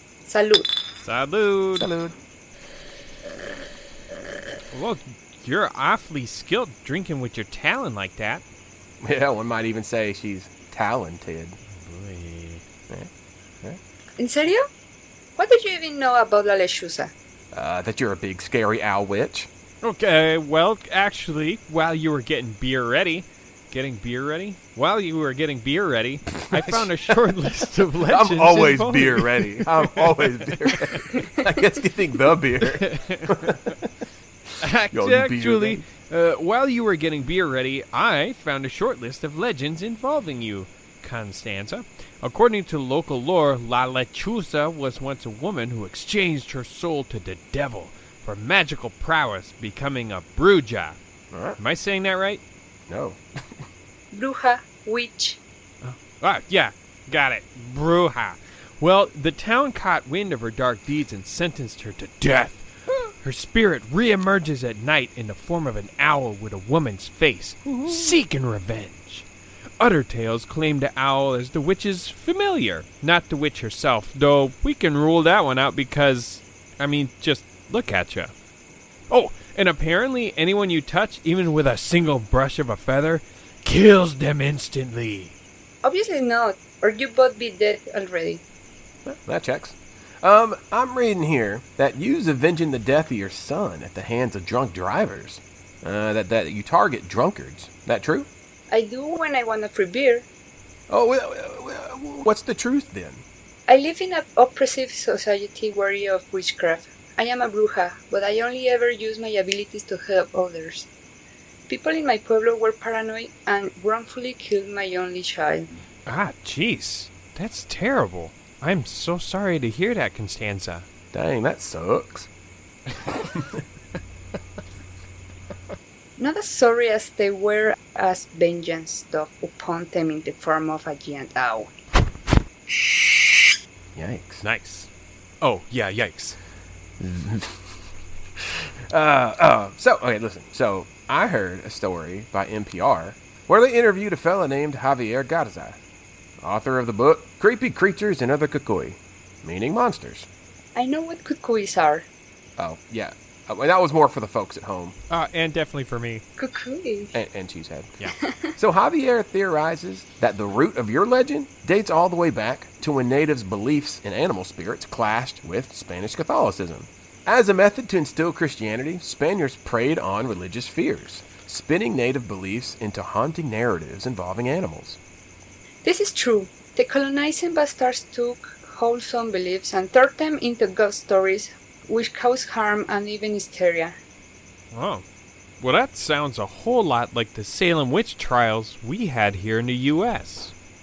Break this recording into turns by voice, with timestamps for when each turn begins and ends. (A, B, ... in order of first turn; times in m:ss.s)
0:00.2-0:00.7 A
0:01.0-0:01.9 B
0:01.8-0:02.2 C
0:04.7-0:08.4 B
0:09.0-0:11.6 C
0:11.7-0:12.6 B
0:14.2-0:14.6 A
0:15.4-0:17.1 A
0:17.5-0:19.5 C
0:19.8-0:31.2 B
0:26.4-0:26.9 C
0:28.0-0:33.9 C
0:32.6-0:33.6 B
0:34.6-0:51.0 B
0:34.9-0:35.8 C
0:51.3-0:51.6 C
0:51.6-0:52.4 B
0:52.9-0:53.6 C
0:54.1-0:55.4 A
0:55.8-1:09.3 B
1:07.6-1:08.1 C
1:09.8-1:18.3 B
1:19.1-1:25.4 B
1:25.8-1:28.4 A
1:29.0-1:38.3 C
1:38.7-1:40.2 A
1:40.9-1:43.2 C
1:43.7-1:50.9 A
1:51.7-1:55.7 A
1:56.1-2:00.8 B
2:01.1-2:02.3 C
2:03.3-2:03.6 C
2:06.2-2:11.7 A
2:13.9-2:14.4 C
2:14.4-2:14.9 B
2:15.4-2:16.4 B
2:17.0-2:17.8 C
2:18.4-2:25.8 C
2:26.4-2:30.3 C
2:30.7-2:32.1 A
2:32.6-2:34.9 C
2:35.1-2:36.2 B
2:36.4-2:37.1 A
2:37.1-2:37.9 C
2:38.1-2:38.5 A
2:38.5-2:55.0 C
2:55.8-3:04.0 A
3:04.7-3:05.0 B
3:05.6-3:10.5 B